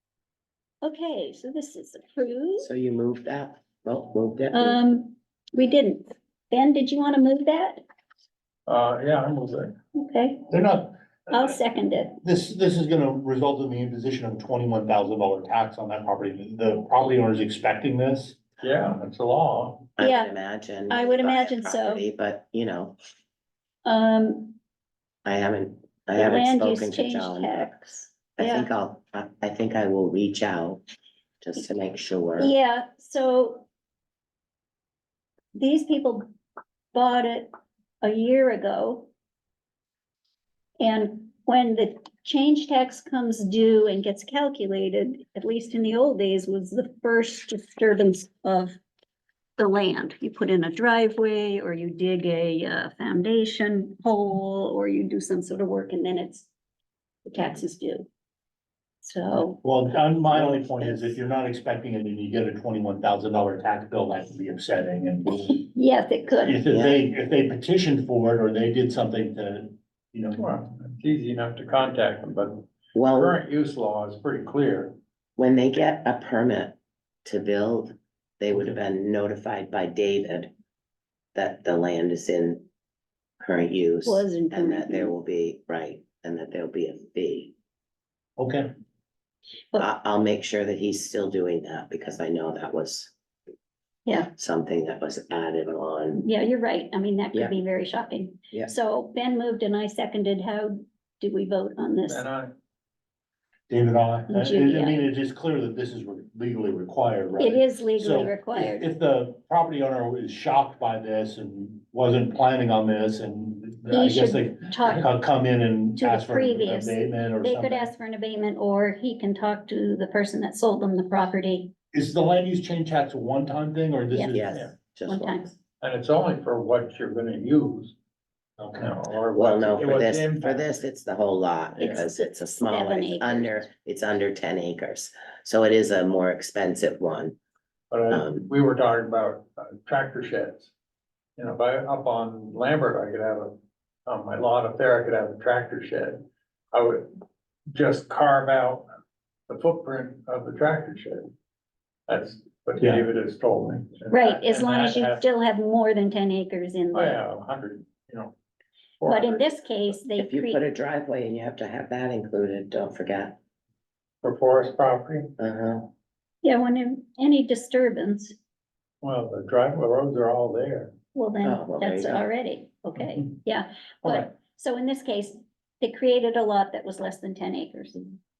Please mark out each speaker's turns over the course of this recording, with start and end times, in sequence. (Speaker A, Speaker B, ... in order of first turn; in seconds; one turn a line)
Speaker A: 0.8-2.7
Speaker B: 2.6-4.8
Speaker A: 4.5-7.8
Speaker C: 8.7-9.8
Speaker A: 9.9-10.5
Speaker D: 10.5-11.0
Speaker A: 11.3-12.2
Speaker D: 12.2-18.4
Speaker C: 18.6-19.9
Speaker B: 20.0-23.0
Speaker A: 20.0-20.3
Speaker A: 20.9-22.1
Speaker A: 23.9-24.6
Speaker B: 25.2-27.8
Speaker A: 26.2-28.7
Speaker B: 28.4-30.8
Speaker B: 31.4-32.5
Speaker A: 32.4-33.7
Speaker A: 35.5-36.3
Speaker A: 36.9-37.5
Speaker A: 38.0-39.1
Speaker A: 40.8-48.8
Speaker A: 49.6-56.5
Speaker A: 57.2-58.1
Speaker A: 59.0-59.6
Speaker D: 59.6-65.6
Speaker A: 60.3-61.2
Speaker A: 65.3-66.6
Speaker D: 66.4-70.5
Speaker B: 66.7-67.0
Speaker C: 70.4-75.0
Speaker B: 73.0-73.4
Speaker B: 75.4-80.5
Speaker D: 78.5-78.8
Speaker B: 81.3-82.7
Speaker B: 83.4-87.5
Speaker A: 84.0-85.2
Speaker D: 88.4-88.7
Speaker B: 89.8-93.1
Speaker A: 94.1-94.3
Speaker B: 94.3-96.3
Speaker A: 96.2-102.3
Speaker C: 102.1-102.5
Speaker D: 103.7-117.9
Speaker A: 104.3-105.0
Speaker A: 107.4-108.9
Speaker A: 113.9-115.1
Speaker A: 116.0-121.7
Speaker D: 121.9-124.7
Speaker A: 124.1-124.4
Speaker B: 124.3-125.5
Speaker A: 125.1-125.5
Speaker C: 125.8-128.0
Speaker D: 128.6-128.9
Speaker C: 128.8-130.7
Speaker B: 129.3-137.4
Speaker A: 131.8-133.7
Speaker C: 137.9-140.7
Speaker B: 138.1-138.5
Speaker C: 141.4-147.1
Speaker C: 147.7-148.9
Speaker C: 149.5-151.3
Speaker C: 152.1-155.2
Speaker D: 152.8-153.1
Speaker A: 154.1-157.2
Speaker C: 156.9-158.3
Speaker C: 159.0-159.6
Speaker A: 159.1-160.6
Speaker B: 160.2-163.4
Speaker C: 164.2-165.3
Speaker B: 165.4-165.9
Speaker A: 166.4-168.3
Speaker C: 169.0-170.9
Speaker A: 171.1-178.2
Speaker B: 171.4-172.3